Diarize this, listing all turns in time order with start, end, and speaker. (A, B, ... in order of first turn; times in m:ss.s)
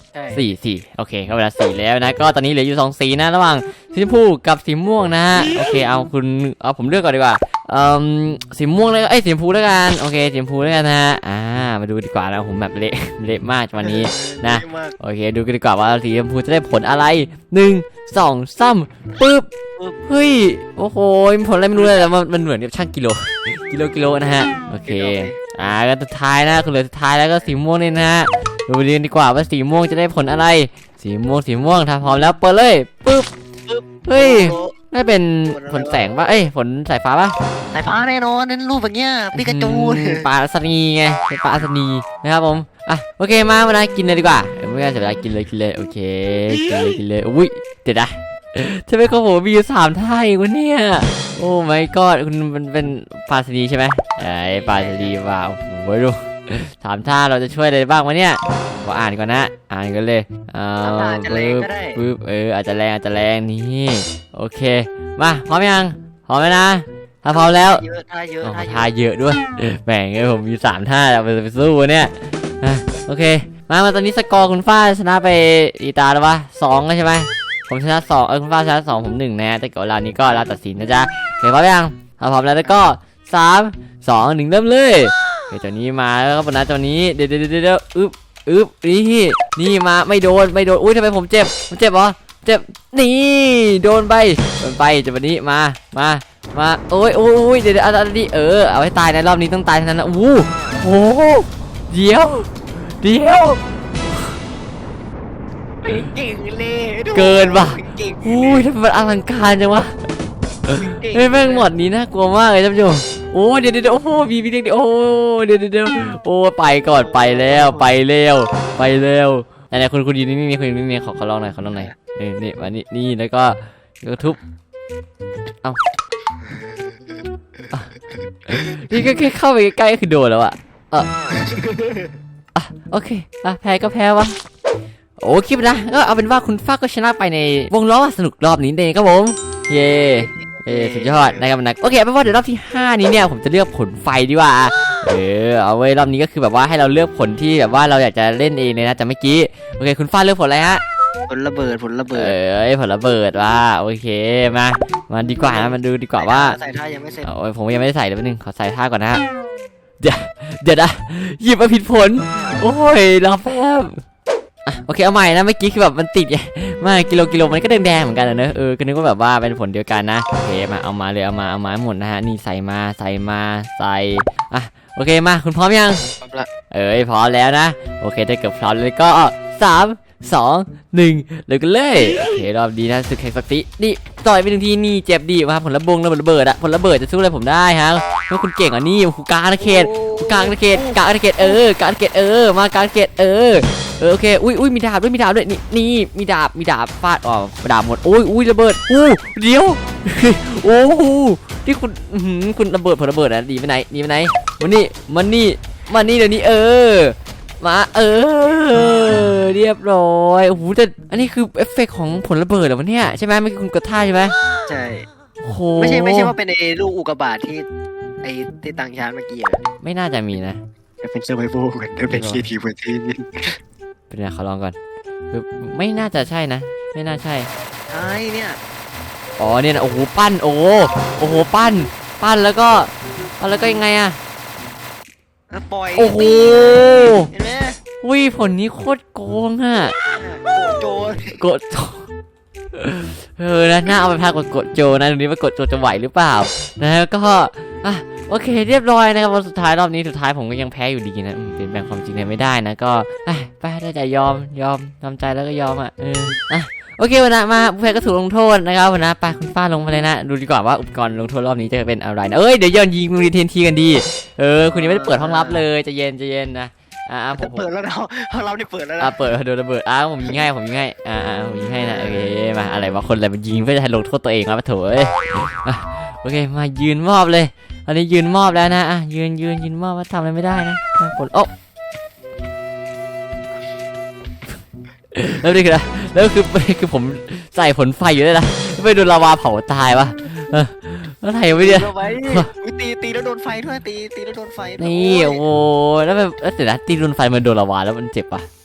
0:00.1-0:00.4 A
0:00.3-0:19.5 B
0:13.8-0:15.0 A
0:20.1-0:33.3 B
0:21.8-0:22.1 A
0:24.9-0:25.4 A
0:33.7-0:34.8 A
0:34.1-0:37.4 B
0:35.5-0:36.1 A
0:37.7-0:40.3 A
0:39.3-1:07.8 B
0:54.2-0:55.2 A
1:00.8-1:02.0 A
1:07.3-1:08.9 A
1:08.4-1:43.6 B
1:45.8-1:48.7 A
1:47.1-1:50.0 B
1:50.7-2:04.4 B
1:50.7-1:51.7 A
1:56.9-1:57.9 A
2:01.7-2:01.9 A
2:08.5-2:11.1 B
2:11.3-2:12.2 A
2:12.6-2:14.4 B
2:15.2-2:30.8 B
2:19.9-2:21.4 A
2:31.3-2:32.4 A
2:32.1-2:36.6 B
2:35.4-2:37.3 A
2:37.2-2:39.2 B
2:40.0-2:44.0 B
2:44.7-2:56.0 B
2:56.2-2:56.5 A
2:56.7-3:34.4 B
3:09.6-3:11.6 A
3:34.7-3:35.1 A
3:35.4-3:36.3 B
3:35.8-3:37.7 A
3:38.2-3:39.6 A
3:39.8-3:40.6 B
3:41.0-3:43.6 A
3:42.1-3:42.5 B
3:44.1-3:44.8 B
3:45.3-3:47.5 B
3:47.9-3:48.6 A
3:49.4-3:54.2 B
3:55.5-3:57.8 A
3:56.0-3:57.3 B
3:58.0-4:00.0 B
4:00.1-4:01.4 A
4:01.4-4:02.1 B
4:02.8-4:27.7 B
4:24.7-4:25.6 A
4:27.3-4:29.2 A
4:29.0-4:41.5 B
4:31.8-4:32.3 A
4:45.1-4:52.5 B
4:51.6-4:55.4 A
4:54.8-4:58.5 B